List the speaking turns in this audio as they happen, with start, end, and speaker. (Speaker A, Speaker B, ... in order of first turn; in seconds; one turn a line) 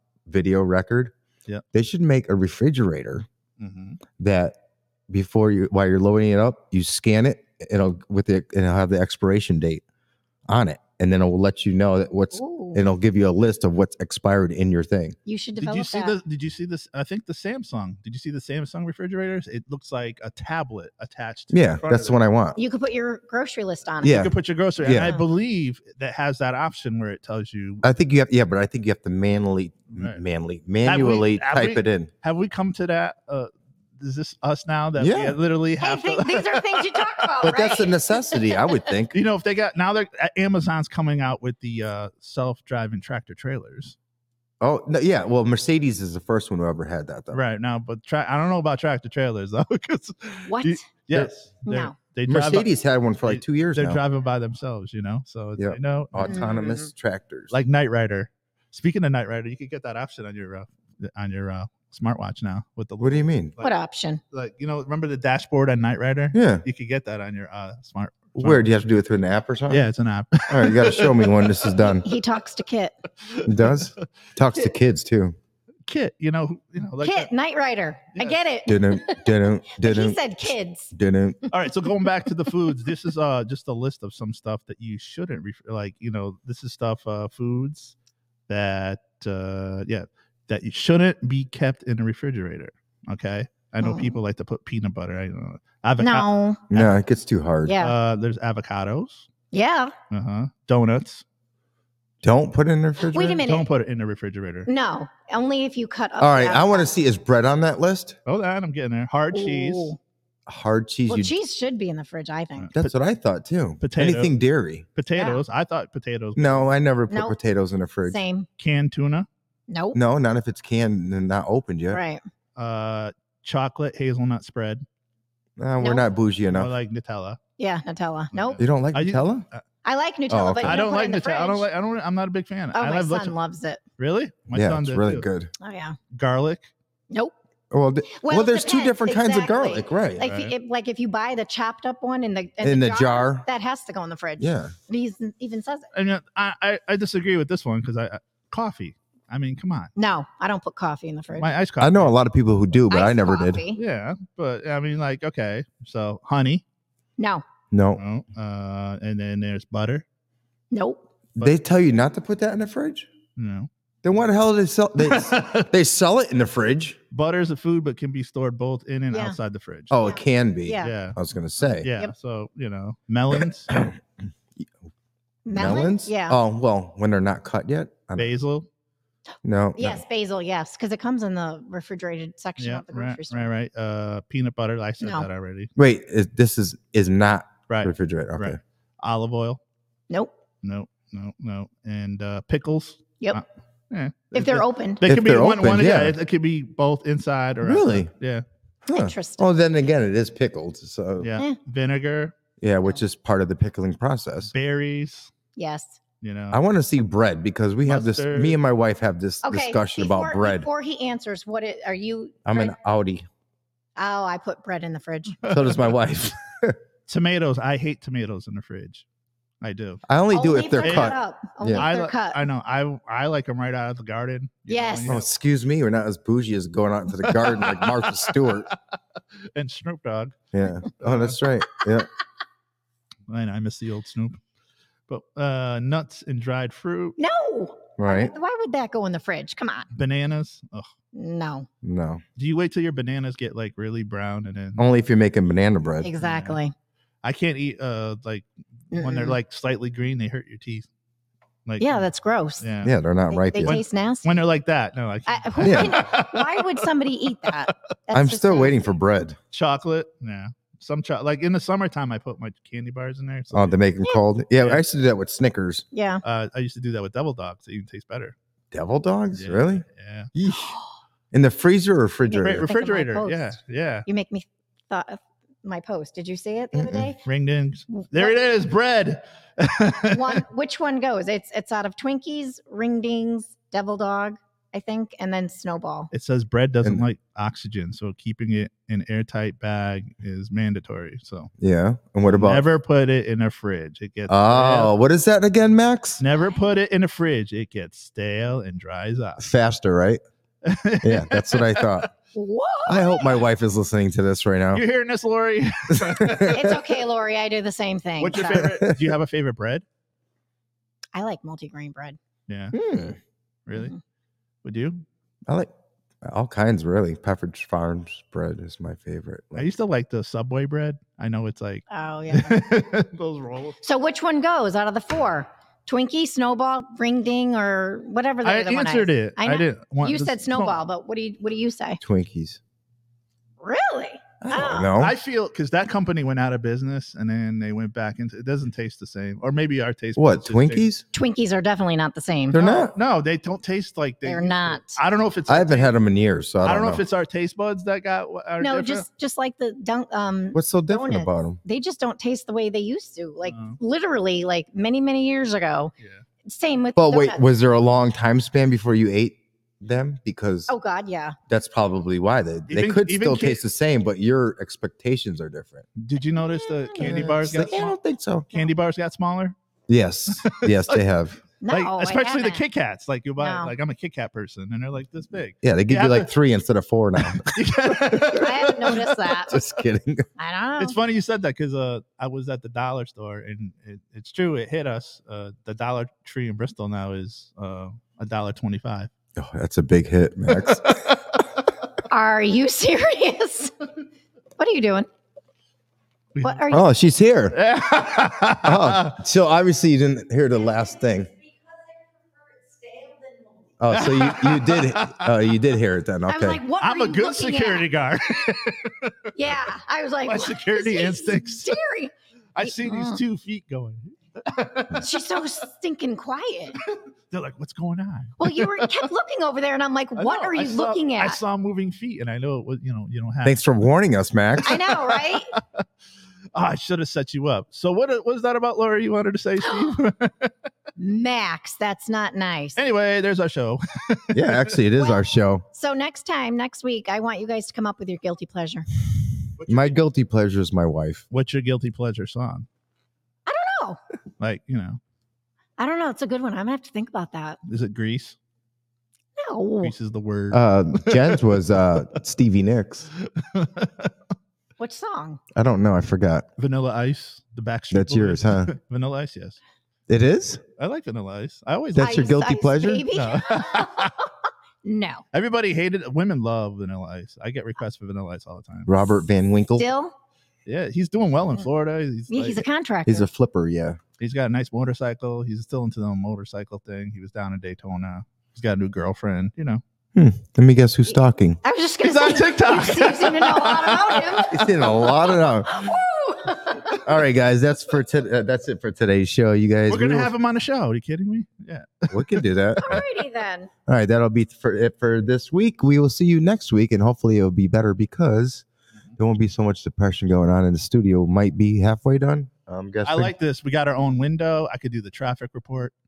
Speaker A: 0.3-1.1
Speaker A: 1.7-3.2
Speaker B: 3.6-4.0
Speaker A: 4.2-4.6
Speaker A: 5.1-9.8
Speaker A: 10.5-15.2
Speaker C: 12.3-12.9
Speaker C: 15.2-16.2
Speaker B: 15.6-22.2
Speaker A: 21.5-22.6
Speaker C: 22.6-24.3
Speaker A: 24.0-25.1
Speaker B: 24.0-27.9
Speaker A: 27.8-32.1
Speaker B: 29.9-30.2
Speaker B: 30.8-37.3
Speaker A: 35.0-35.4
Speaker C: 35.8-38.9
Speaker A: 37.4-39.2
Speaker B: 39.1-44.0
Speaker A: 44.6-47.4
Speaker B: 47.3-52.7
Speaker C: 50.5-50.8
Speaker C: 51.6-51.9
Speaker A: 52.3-54.0
Speaker B: 53.2-56.6
Speaker A: 55.6-57.5
Speaker C: 56.2-56.9
Speaker B: 57.5-63.7
Speaker A: 63.0-63.5
Speaker C: 63.6-64.2
Speaker B: 64.3-68.7
Speaker A: 66.3-66.6
Speaker A: 68.4-69.9
Speaker B: 69.7-71.9
Speaker A: 70.5-72.1
Speaker C: 72.0-73.0
Speaker B: 73.3-73.8
Speaker A: 73.4-75.3
Speaker B: 75.9-77.3
Speaker C: 77.0-80.9
Speaker B: 78.2-78.4
Speaker A: 78.7-81.4
Speaker B: 81.5-87.9
Speaker B: 88.5-97.0
Speaker C: 93.8-94.2
Speaker C: 96.0-96.6
Speaker A: 96.7-97.8
Speaker C: 97.7-97.9
Speaker B: 97.8-99.3
Speaker C: 99.5-99.9
Speaker B: 100.1-101.2
Speaker A: 102.2-103.4
Speaker C: 103.0-103.7
Speaker B: 103.4-104.7
Speaker C: 104.7-106.9
Speaker A: 106.2-108.2
Speaker B: 108.2-110.0
Speaker C: 109.3-110.0
Speaker A: 110.5-111.3
Speaker C: 111.1-112.7
Speaker B: 112.6-112.9
Speaker A: 112.7-114.8
Speaker B: 113.8-114.3
Speaker B: 115.0-116.7
Speaker C: 115.1-115.4
Speaker A: 116.3-118.2
Speaker C: 117.1-117.3
Speaker C: 118.1-118.5
Speaker B: 118.6-119.3
Speaker C: 119.7-120.0
Speaker A: 119.9-122.0
Speaker C: 121.9-122.2
Speaker B: 122.5-124.8
Speaker A: 125.6-126.7
Speaker C: 125.8-126.1
Speaker B: 126.5-127.4
Speaker C: 127.6-128.6
Speaker B: 128.3-129.6
Speaker A: 128.6-129.4
Speaker C: 129.8-131.7
Speaker A: 130.3-130.9
Speaker B: 130.6-133.3
Speaker C: 132.7-133.8
Speaker B: 134.0-135.3
Speaker A: 134.5-135.5
Speaker C: 135.6-136.0
Speaker B: 136.1-136.7
Speaker A: 137.7-140.3
Speaker C: 138.1-145.9
Speaker B: 140.2-140.5
Speaker A: 142.6-143.4
Speaker A: 144.4-144.7
Speaker B: 145.9-149.9
Speaker C: 149.9-151.5
Speaker B: 151.3-152.1
Speaker A: 151.8-153.6
Speaker C: 152.9-153.8
Speaker B: 153.7-156.6
Speaker C: 157.2-157.4
Speaker A: 157.7-158.0
Speaker B: 158.0-160.0
Speaker C: 160.7-161.0
Speaker A: 161.3-163.1
Speaker B: 163.4-163.7
Speaker A: 164.0-167.0
Speaker B: 165.0-165.7
Speaker B: 167.1-170.0
Speaker C: 169.1-169.3
Speaker A: 169.9-171.9
Speaker C: 170.0-170.9
Speaker B: 170.8-173.7
Speaker A: 173.7-174.0
Speaker C: 175.4-176.4
Speaker A: 175.5-178.3
Speaker B: 178.2-178.7
Speaker A: 179.4-180.0
Speaker C: 179.8-183.4
Speaker B: 182.6-185.7
Speaker C: 185.0-185.3
Speaker A: 185.8-188.6
Speaker B: 187.7-189.6
Speaker B: 190.6-198.4
Speaker C: 194.3-195.0
Speaker A: 195.0-196.1
Speaker A: 197.6-198.1
Speaker A: 198.9-201.3
Speaker C: 198.9-199.5
Speaker B: 201.2-202.3
Speaker A: 202.6-204.5
Speaker B: 204.5-205.3
Speaker C: 205.6-206.0
Speaker B: 206.2-206.6
Speaker A: 206.5-210.7
Speaker B: 207.8-208.6
Speaker C: 209.4-212.8
Speaker A: 212.4-213.3
Speaker C: 214.0-215.4
Speaker B: 215.4-215.8
Speaker A: 215.4-216.8
Speaker B: 217.1-219.1
Speaker B: 219.6-220.0
Speaker A: 220.1-221.9
Speaker C: 220.3-222.4
Speaker B: 220.8-221.2
Speaker B: 221.7-225.2
Speaker C: 224.7-225.1
Speaker A: 225.1-228.7
Speaker B: 227.2-228.8
Speaker B: 229.5-230.4
Speaker A: 230.5-232.1
Speaker B: 230.9-231.4
Speaker B: 233.3-234.4
Speaker B: 235.1-237.2
Speaker C: 237.2-239.9
Speaker A: 238.0-238.3
Speaker B: 239.9-240.9
Speaker C: 241.1-241.7
Speaker A: 241.8-242.2
Speaker B: 242.3-244.8
Speaker A: 244.8-246.1
Speaker C: 246.0-246.7
Speaker B: 246.2-246.6
Speaker B: 247.2-250.9
Speaker C: 248.9-249.4
Speaker B: 251.7-252.0
Speaker C: 251.8-252.6
Speaker B: 252.6-252.9
Speaker A: 252.8-253.8
Speaker C: 253.3-254.3
Speaker B: 253.6-257.7
Speaker C: 255.3-258.9
Speaker A: 255.6-256.0
Speaker A: 258.1-259.4
Speaker B: 259.5-263.8
Speaker A: 263.5-265.9
Speaker B: 264.6-264.8
Speaker C: 265.9-266.2
Speaker B: 266.2-268.4
Speaker A: 268.7-269.8
Speaker B: 269.3-270.3
Speaker A: 270.3-270.7
Speaker C: 270.5-270.9
Speaker A: 271.3-272.6
Speaker C: 272.3-277.2
Speaker B: 272.4-274.1
Speaker A: 276.7-277.1
Speaker B: 277.2-280.4
Speaker C: 277.9-278.3
Speaker C: 279.9-286.1
Speaker B: 286.1-291.5
Speaker A: 291.6-292.6
Speaker B: 292.3-294.9
Speaker A: 294.3-296.2
Speaker B: 296.2-299.4
Speaker A: 299.4-300.2
Speaker B: 300.6-302.1
Speaker A: 301.0-302.1
Speaker C: 302.3-303.4
Speaker A: 302.9-304.8
Speaker B: 304.7-306.8
Speaker A: 305.9-306.6
Speaker C: 306.4-308.7
Speaker B: 308.2-309.8
Speaker A: 308.4-309.1
Speaker C: 311.1-312.2
Speaker B: 312.5-312.8
Speaker A: 312.7-313.2
Speaker B: 313.7-313.9
Speaker B: 314.6-315.0
Speaker A: 316.2-319.7
Speaker B: 319.6-323.8
Speaker C: 321.9-322.6
Speaker C: 323.8-332.0
Speaker B: 328.4-330.8
Speaker A: 332.0-332.6
Speaker C: 333.6-334.9
Speaker A: 334.4-335.2
Speaker B: 334.9-340.9
Speaker A: 340.1-341.0
Speaker C: 341.1-342.6
Speaker A: 342.5-342.9
Speaker B: 342.5-345.9
Speaker C: 344.2-345.0
Speaker A: 345.5-347.0
Speaker B: 346.6-349.0
Speaker C: 348.6-355.9
Speaker A: 350.5-351.6
Speaker B: 353.4-353.8
Speaker C: 356.4-357.4
Speaker A: 356.9-360.7
Speaker C: 360.7-361.4
Speaker A: 361.5-365.9
Speaker B: 362.7-363.6
Speaker B: 365.9-367.9
Speaker C: 366.5-367.9
Speaker A: 367.0-368.5
Speaker B: 368.5-369.6
Speaker A: 369.9-371.4
Speaker B: 370.3-371.0
Speaker C: 371.6-372.6
Speaker B: 371.7-376.3
Speaker C: 373.4-373.7
Speaker A: 375.6-378.2
Speaker B: 377.2-379.4
Speaker C: 378.1-379.6
Speaker A: 379.5-380.2
Speaker C: 380.4-381.0
Speaker B: 380.8-389.1
Speaker A: 389.4-391.0
Speaker B: 390.5-391.4
Speaker C: 392.1-393.7
Speaker C: 394.6-395.1
Speaker B: 396.3-396.6
Speaker C: 396.4-396.9
Speaker A: 396.7-397.6
Speaker B: 397.5-399.1
Speaker A: 398.6-401.3
Speaker A: 403.8-406.6
Speaker B: 403.9-405.4
Speaker C: 406.3-407.9
Speaker B: 406.8-409.3
Speaker C: 409.3-413.2
Speaker B: 410.2-411.8
Speaker B: 412.5-415.2
Speaker C: 414.9-416.8
Speaker B: 417.3-419.1
Speaker C: 418.4-421.4
Speaker B: 420.2-423.8
Speaker A: 423.4-424.8
Speaker C: 424.6-425.5
Speaker B: 424.6-425.8
Speaker B: 426.5-430.5
Speaker C: 429.6-429.9
Speaker C: 431.0-432.8
Speaker B: 432.8-434.8
Speaker A: 434.3-435.6
Speaker C: 434.9-438.9
Speaker B: 439.6-440.0
Speaker A: 439.7-441.2
Speaker B: 441.3-442.7
Speaker C: 443.4-444.0
Speaker B: 444.4-445.0
Speaker C: 445.8-447.6
Speaker B: 447.7-448.4
Speaker C: 449.4-449.9
Speaker B: 449.8-451.9
Speaker A: 450.5-453.1
Speaker B: 453.2-454.1
Speaker C: 454.8-455.4
Speaker A: 455.5-456.4
Speaker B: 456.6-459.6
Speaker A: 457.9-458.7
Speaker A: 460.1-460.6
Speaker B: 460.8-462.2
Speaker A: 461.9-463.1
Speaker C: 462.0-464.3
Speaker B: 463.1-464.1
Speaker C: 464.8-465.2
Speaker B: 465.3-469.0
Speaker A: 468.9-469.9
Speaker C: 469.8-470.1
Speaker B: 470.6-472.6
Speaker C: 472.3-473.3
Speaker A: 473.1-474.0
Speaker B: 474.2-479.8
Speaker A: 480.1-481.6
Speaker C: 481.6-484.7
Speaker B: 482.0-484.7
Speaker A: 484.5-485.9
Speaker C: 485.6-487.0
Speaker A: 487.0-490.3
Speaker B: 489.9-492.4
Speaker A: 492.1-493.0
Speaker C: 492.8-493.7
Speaker A: 493.9-498.6
Speaker A: 499.2-503.3
Speaker B: 503.0-505.9